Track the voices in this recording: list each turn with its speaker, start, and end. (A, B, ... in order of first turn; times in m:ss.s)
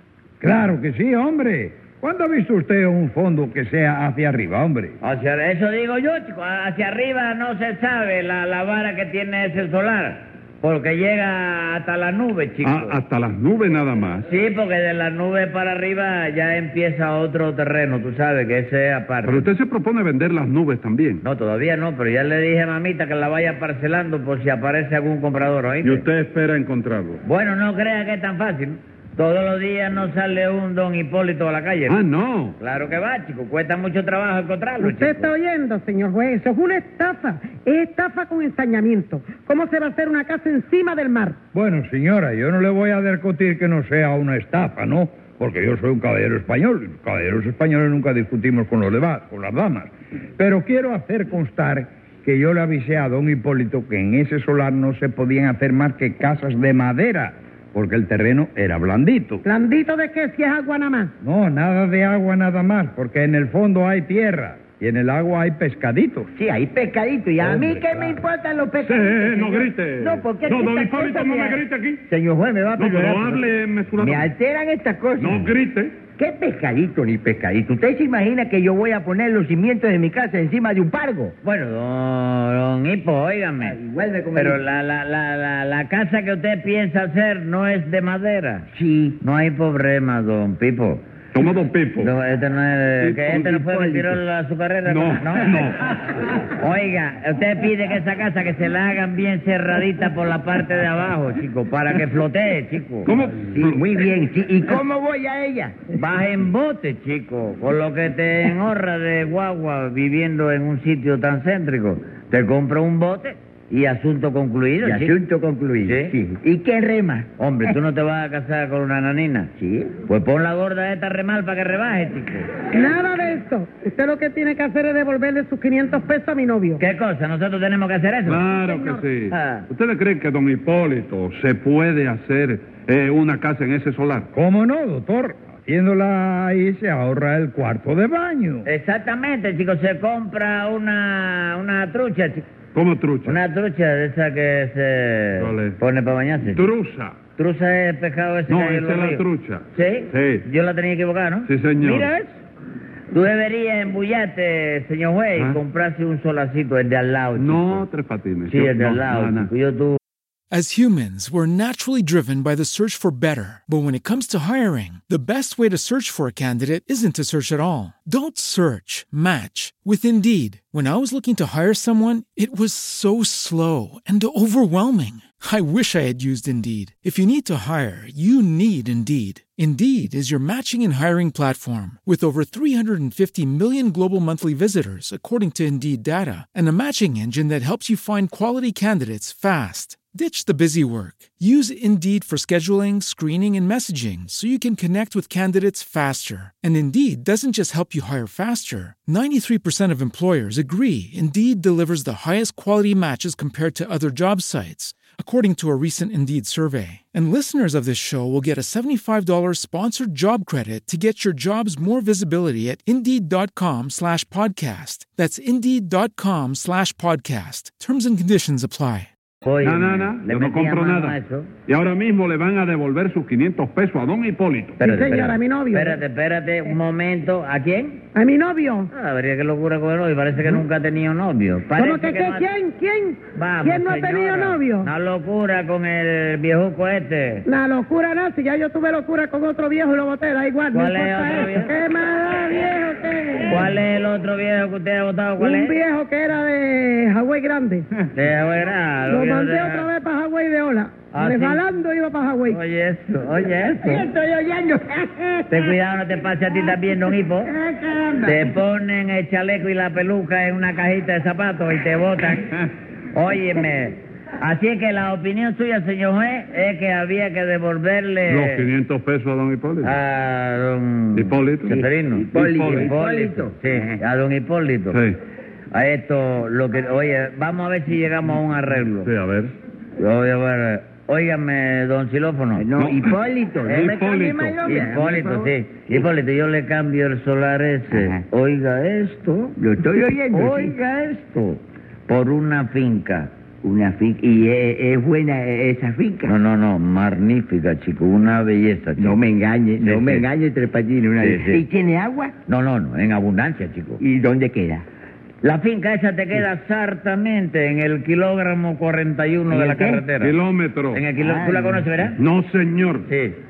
0:00.4-0:05.0 A
0:05.0-0:13.0 B
0:12.6-0:14.3 C
0:14.3-0:19.5 B
0:19.2-0:21.2 C
0:21.2-0:26.0 B
0:25.8-0:27.2 C
0:27.2-0:32.0 B
0:31.9-0:32.6 C
0:32.6-0:35.3 B
0:34.8-0:41.4 D
0:41.5-0:59.4 A
0:59.4-1:01.1 D
1:01.2-1:06.3 A
1:06.4-1:15.5 E
1:07.4-1:08.2 A
1:08.8-1:12.0 C
1:12.8-1:14.3 C
1:15.2-1:15.9 C
1:16.2-1:21.3 E
1:21.4-1:23.8 B
1:23.6-1:24.6 E
1:24.3-1:28.7 B
1:28.7-1:29.2 E
1:29.2-1:31.0 B
1:31.3-1:32.1 C
1:32.0-1:35.7 B
1:33.0-1:34.2 E
1:34.8-1:35.9 C
1:36.5-1:43.1 B
1:43.0-1:43.8 C
1:43.4-1:45.8 E
1:45.9-1:55.1 B
1:54.8-1:57.8 E
1:55.8-1:56.2 B
1:57.4-1:59.5 B
1:59.6-2:00.0 E
2:00.0-2:02.6 B
2:02.7-2:06.8 D
2:06.8-2:08.4 B
2:08.3-2:14.3 C
2:08.4-2:09.0 D
2:09.3-2:09.6 B
2:14.3-2:18.6 A
2:18.6-2:22.4 B
2:22.7-2:23.4 C
2:23.2-2:26.7 B
2:25.4-2:25.8 C
2:26.4-2:27.2 C
2:27.4-2:29.2 B
2:28.5-2:30.4 C
2:29.7-2:32.3 B
2:31.4-2:32.1 C
2:33.1-2:37.8 B
2:37.3-2:39.5 C
2:38.5-2:40.0 B
2:40.5-3:39.1 F
3:39.4-3:41.5 B
3:39.6-3:41.2 C
3:41.7-3:44.8 C
3:44.8-3:48.0 B
3:44.8-3:46.0 D
3:48.1-3:48.9 D
3:48.9-3:52.5 B
3:51.8-3:54.9 D
3:53.4-3:57.4 B
3:57.4-4:03.7 D
4:00.7-4:01.7 B
4:03.5-4:05.7 B
4:05.4-4:07.8 D
4:08.1-4:09.9 B
4:09.1-4:12.6 D
4:11.1-4:11.6 B
4:12.5-4:14.1 B
4:13.8-4:15.7 E
4:15.5-4:17.5 B
4:17.4-4:18.5 E
4:18.2-4:28.6 B
4:28.3-4:29.9 C
4:29.8-4:35.0 B
4:31.1-4:31.7 C
4:31.7-4:33.8 E
4:32.3-4:32.9 C
4:34.9-4:35.2 C
4:35.7-4:39.1 B
4:39.0-4:39.5 C
4:40.0-4:42.7 B
4:42.6-4:46.0 E
4:42.8-4:43.1 C
4:43.7-4:49.6 B
4:43.7-4:44.5 C
4:47.9-4:48.2 E
4:49.6-4:50.8 E
4:50.3-4:53.3 B
4:53.6-4:56.3 E
4:56.2-4:59.2 B
4:59.0-5:02.3 E
4:59.8-5:00.2 B
5:01.2-5:01.6 B
5:02.5-5:04.0 B
5:04.0-5:04.8 E
5:05.4-5:10.3 B
5:09.5-5:10.0 E
5:10.2-5:11.0 C
5:10.9-5:12.2 B
5:11.2-5:11.8 E
5:12.2-5:13.1 C
5:13.1-5:13.4 B